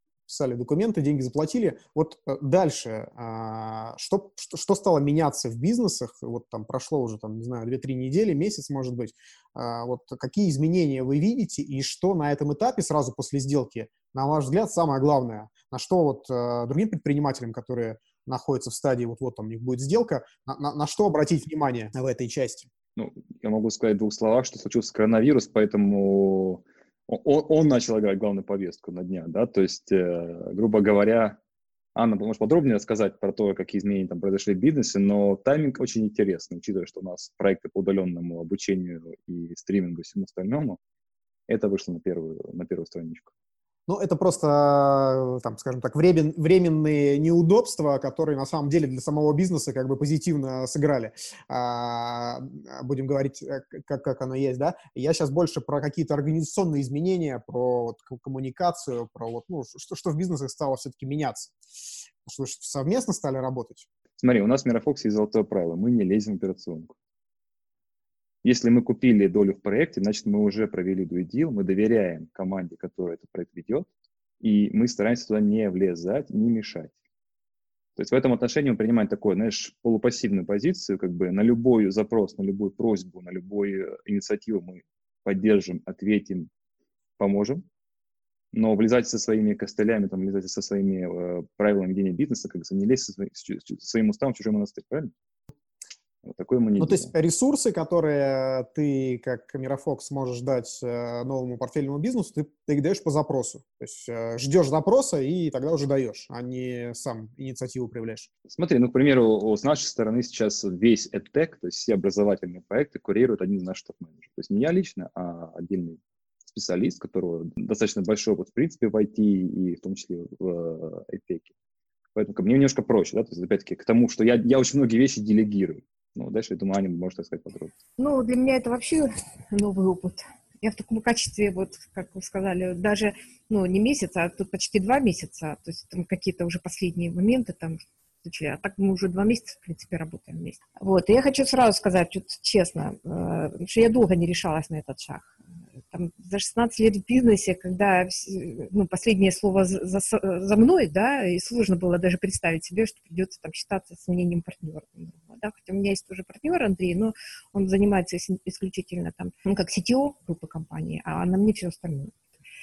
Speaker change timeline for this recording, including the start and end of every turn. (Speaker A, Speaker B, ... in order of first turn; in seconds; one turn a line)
Speaker A: 0.3-22.7
Speaker B: 22.9-31.4
Speaker B: 31.9-40.8
Speaker B: 41.5-43.3
Speaker A: 43.9-61.6
Speaker A: 62.2-63.9
Speaker B: 64.2-66.9
Speaker B: 68.4-73.9
Speaker B: 74.4-76.9
Speaker B: 78.0-86.5
Speaker B: 87.2-87.6
Speaker B: 88.5-95.1
Speaker B: 96.2-97.1
Speaker A: 96.8-108.3
Speaker B: 108.5-121.5
Speaker B: 122.1-127.7
Speaker C: 128.0-145.3
Speaker C: 145.9-162.1